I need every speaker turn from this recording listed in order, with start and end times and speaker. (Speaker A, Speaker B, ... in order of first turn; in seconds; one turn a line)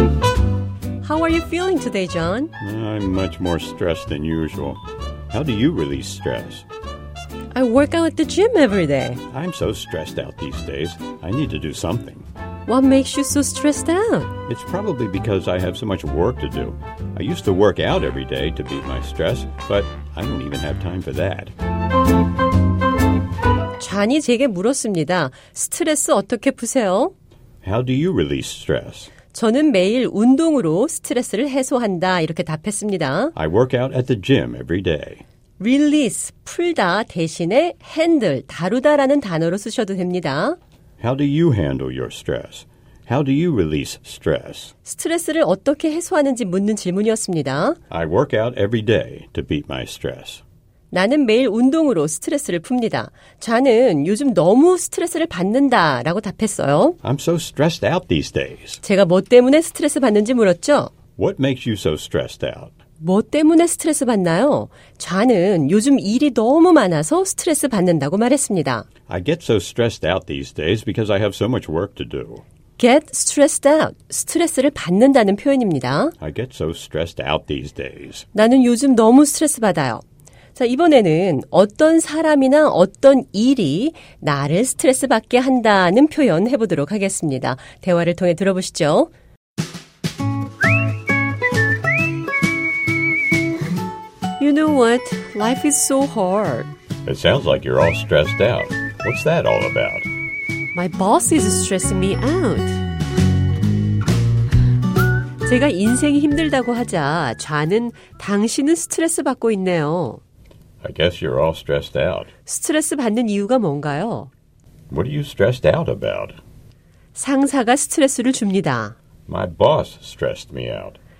Speaker A: 1.0-2.5
Speaker B: 2.6-6.7
Speaker A: 7.5-9.2
Speaker B: 9.3-12.3
Speaker A: 12.7-14.3
Speaker B: 14.5-21.5
Speaker A: 23.8-27.1
Speaker B: 27.6-29.1
Speaker A: 29.3-33.3
Speaker B: 33.4-35.2
Speaker A: 35.6-40.6
Speaker B: 41.0-44.7
Speaker A: 44.9-47.8
Speaker B: 47.9-50.4
Speaker A: 50.9-57.0
Speaker B: 57.0-58.8
Speaker A: 58.8-60.9
Speaker B: 61.2-62.7
Speaker A: 63.0-68.9
Speaker B: 69.1-72.4
Speaker A: 72.8-76.2
Speaker B: 76.2-78.2
Speaker A: 78.3-80.0
Speaker A: 80.6-89.1
Speaker A: 94.4-96.7
Speaker B: 97.1-100.1
Speaker A: 100.7-102.8
Speaker A: 105.4-110.2
Speaker B: 110.8-112.3
Speaker A: 112.5-114.3
Speaker B: 114.9-116.4
Speaker A: 117.2-119.0
Speaker B: 119.3-121.0